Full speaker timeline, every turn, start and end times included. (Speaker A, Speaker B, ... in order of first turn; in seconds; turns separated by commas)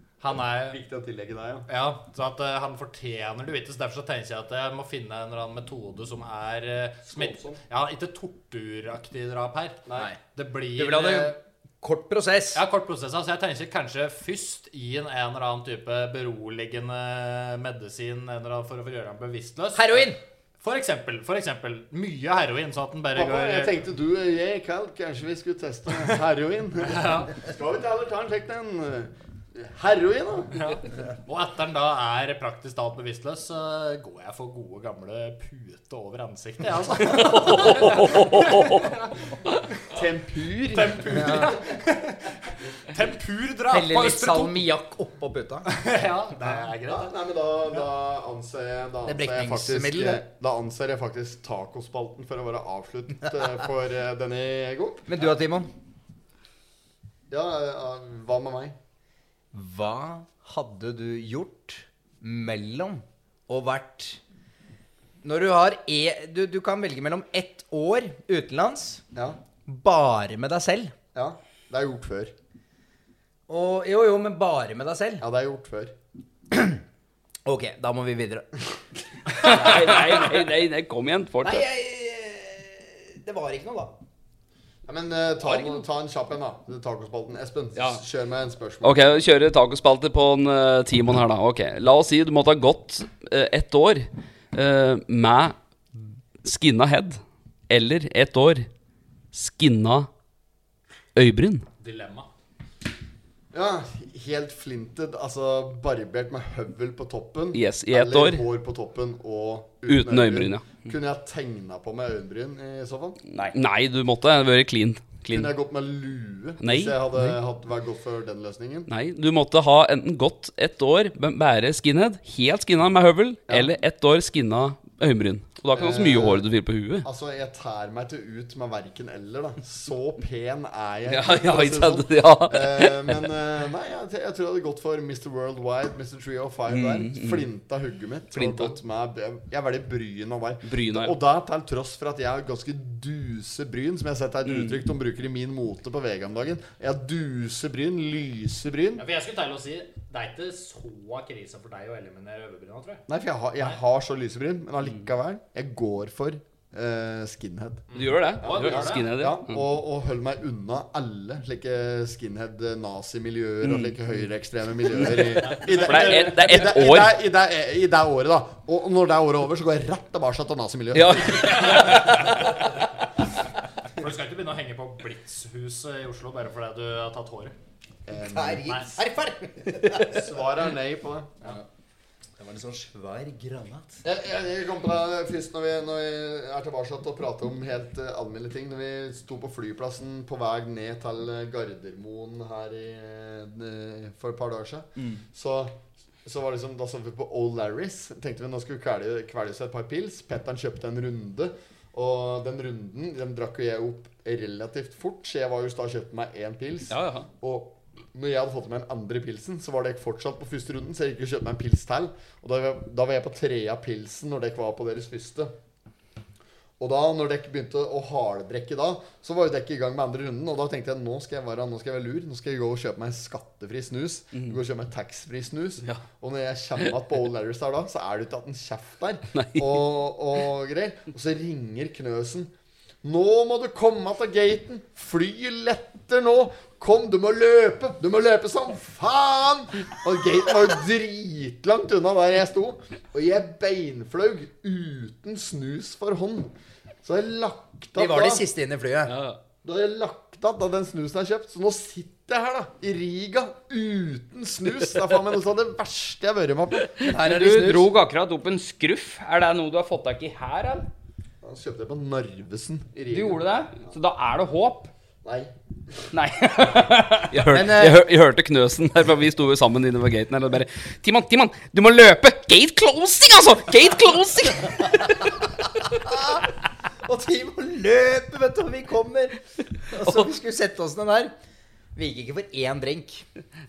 Speaker A: 0.2-0.8, Speaker B: 0.7-1.7, Speaker A: 1.7-9.8, Speaker B: 7.0-7.6, Speaker B: 9.8-10.1, Speaker A: 10.3-11.4, Speaker C: 10.8-12.6, Speaker A: 12.5-23.7, Speaker C: 19.7-20.2, Speaker B: 23.1-30.6, Speaker A: 26.8-27.3, Speaker A: 30.5-39.1, Speaker D: 37.3-38.8, Speaker B: 39.9-41.5, Speaker A: 40.7-44.6, Speaker C: 41.1-41.5, Speaker C: 43.7-45.7, Speaker A: 45.7-47.1, Speaker B: 46.9-55.1, Speaker C: 49.0-50.2, Speaker C: 55.1-55.7, Speaker B: 57.3-58.8, Speaker C: 59.5-64.2, Speaker C: 65.2-69.0, Speaker C: 69.7-70.9, Speaker B: 71.1-72.3, Speaker C: 73.5-75.2, Speaker B: 75.2-75.9, Speaker C: 76.5-76.8, Speaker C: 77.5-78.5, Speaker D: 79.3-81.6, Speaker C: 79.3-80.0, Speaker C: 81.4-83.9, Speaker B: 84.8-89.2, Speaker D: 87.8-88.0, Speaker D: 88.8-95.5, Speaker D: 96.4-98.7, Speaker D: 99.3-100.1, Speaker D: 101.2-101.7, Speaker A: 101.8-102.3, Speaker B: 103.5-113.2, Speaker D: 107.5-108.4, Speaker D: 109.9-110.8, Speaker D: 113.5-115.5, Speaker B: 115.3-118.9, Speaker D: 116.6-117.4, Speaker D: 118.9-127.0, Speaker B: 125.7-126.5, Speaker B: 127.0-149.0, Speaker D: 131.1-133.3, Speaker D: 136.7-137.4, Speaker D: 138.3-138.8, Speaker D: 140.7-141.1, Speaker D: 144.4-144.8, Speaker A: 148.9-153.0, Speaker B: 153.1-157.8, Speaker A: 157.9-159.1, Speaker D: 157.9-159.6, Speaker B: 158.4-172.1, Speaker D: 163.6-164.1, Speaker D: 164.9-167.2, Speaker A: 165.4-166.3, Speaker D: 170.9-172.6, Speaker A: 173.9-177.5, Speaker B: 178.1-178.9, Speaker C: 178.3-180.2, Speaker B: 179.9-181.3, Speaker C: 182.4-184.0, Speaker B: 184.0-215.5, Speaker D: 206.9-207.2, Speaker B: 216.8-232.5, Speaker D: 229.3-229.8, Speaker B: 233.0-246.5, Speaker B: 247.0-248.4, Speaker C: 247.9-249.1, Speaker D: 249.1-249.4, Speaker B: 249.6-256.9, Speaker C: 257.0-257.9, Speaker E: 257.1-260.9, Speaker B: 261.4-263.9, Speaker E: 263.1-264.9, Speaker B: 265.2-265.5, Speaker E: 266.1-267.3, Speaker D: 267.3-275.3, Speaker C: 267.5-268.0, Speaker C: 276.0-276.4, Speaker C: 277.0-281.3, Speaker C: 281.9-283.2